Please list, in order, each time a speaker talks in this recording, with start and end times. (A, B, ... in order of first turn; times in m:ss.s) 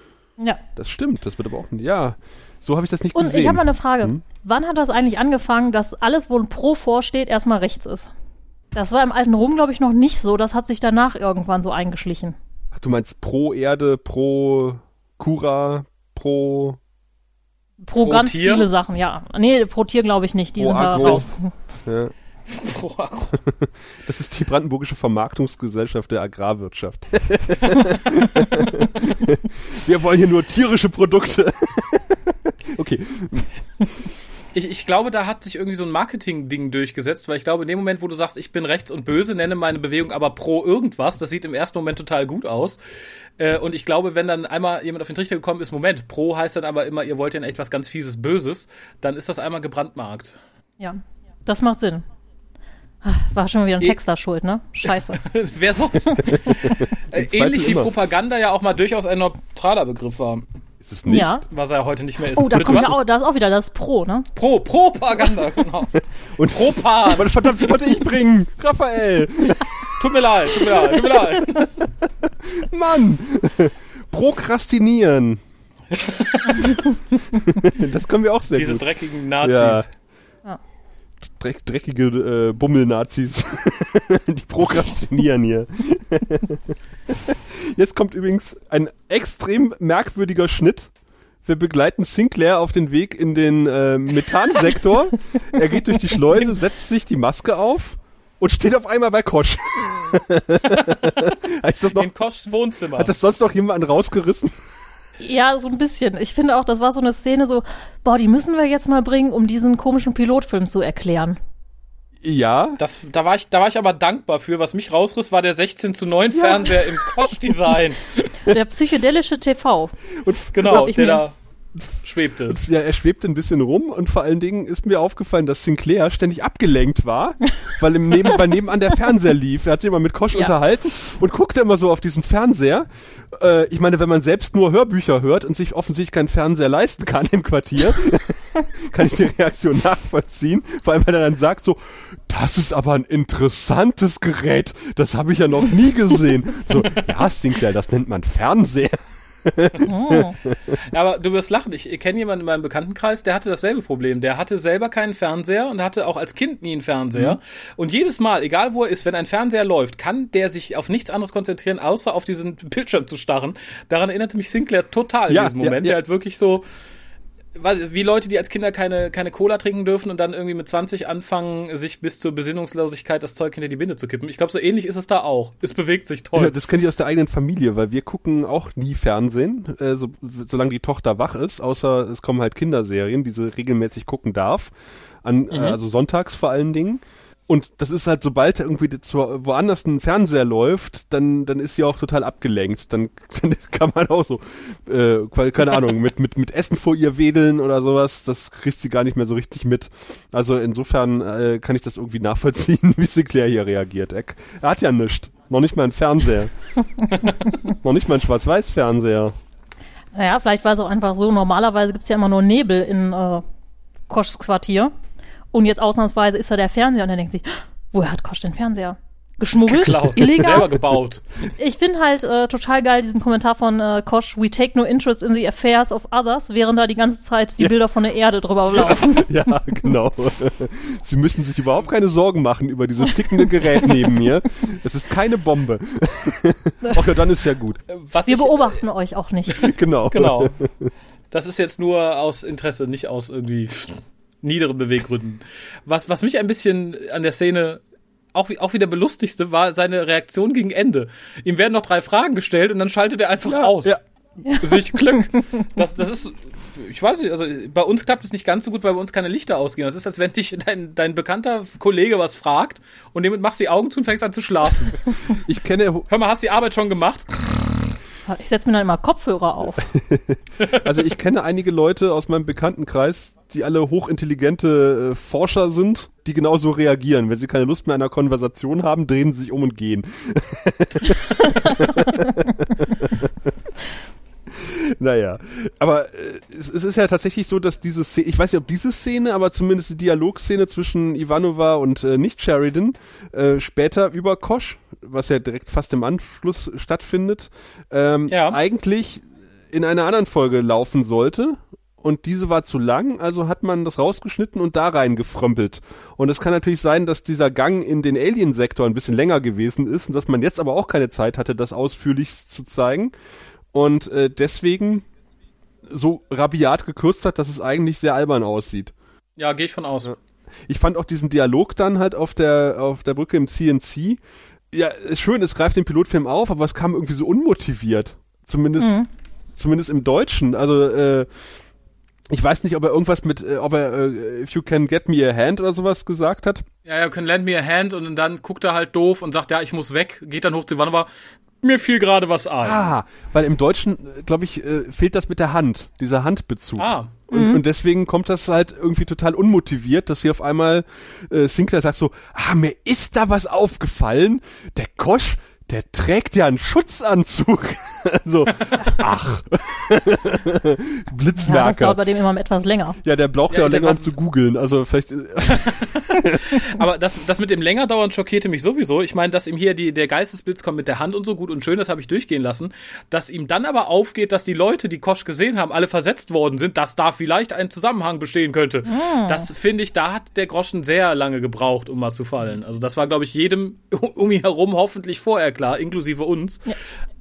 0:00.8-0:04.2 A
0:03.1-0:08.1 B
0:08.7-0:12.4 B
0:12.7-0:16.8 A
0:17.8-0:21.5 B
0:18.0-0:18.7 C
0:20.6-0:21.3 A
0:21.8-0:22.1 A
0:22.5-0:23.3 C
0:23.3-0:33.5 A
0:34.5-0:42.8 C
0:43.4-0:50.4 C
0:50.8-0:52.0 B
0:53.0-0:55.2 B
0:54.9-1:00.4 C
0:56.4-0:57.9 A
1:00.8-1:01.4 A
1:01.1-1:01.4 B
1:01.5-1:03.0 C
1:02.4-1:04.3 B
1:02.5-1:02.9 A
1:04.4-1:07.8 C
1:06.4-1:09.9 A
1:09.8-1:11.7 C
1:10.5-1:15.4 A
1:15.9-1:16.8 C
1:17.4-1:18.9 A
1:18.5-1:19.9 C
1:19.4-1:19.8 A
1:21.4-1:30.9 A
1:31.4-1:42.1 A
1:40.7-1:41.3 C
1:41.9-1:43.1 C
1:43.0-1:44.5 A
1:45.2-1:51.4 B
1:52.2-1:52.8 A
1:52.8-1:58.3 C
1:58.4-1:59.9 B
2:00.2-2:00.9 A
2:00.5-2:01.3 C
2:00.7-2:01.2 B
2:02.0-2:02.6 C
2:02.5-2:30.8 A
2:29.8-2:30.3 B
2:30.8-2:46.6 C
2:45.3-2:46.0 A
2:47.6-2:56.5 C
2:56.3-3:04.7 A
3:05.2-3:26.5 A
3:05.5-3:05.8 C
3:27.7-3:29.3 A
3:30.1-3:33.4 B
3:34.1-3:34.9 B
3:35.5-3:40.7 B
3:39.6-3:41.2 C
3:40.2-3:40.7 A
3:41.6-3:49.6 B
3:48.7-3:57.8 A
3:57.9-3:58.8 C
3:58.3-3:59.7 B
3:59.6-4:00.9 A
4:00.1-4:00.5 C
4:01.3-4:07.8 C
4:08.3-4:14.0 C
4:13.4-4:14.0 A
4:14.4-4:15.4 B
4:14.6-4:25.2 C
4:25.4-4:26.1 A
4:26.1-4:27.4 C
4:28.3-4:29.8 B
4:29.8-4:43.5 A
4:30.6-4:31.0 C
4:44.5-5:13.1 A
4:58.3-4:58.6 C
5:13.7-5:15.0 A
5:15.8-5:18.9 A
5:19.4-5:20.1 C
5:20.7-5:24.2 A
5:24.7-5:29.0 A
5:28.8-5:29.1 B
5:29.6-5:31.3 A
5:32.3-5:36.6 A
5:36.8-5:41.1 C
5:41.6-5:42.9 C
5:42.6-6:02.0 A
5:46.8-5:47.1 C
5:47.3-5:47.6 B
6:01.4-6:03.0 B
6:03.0-6:06.4 A
6:03.5-6:04.1 C
6:05.5-6:26.7 C
6:18.9-6:19.5 B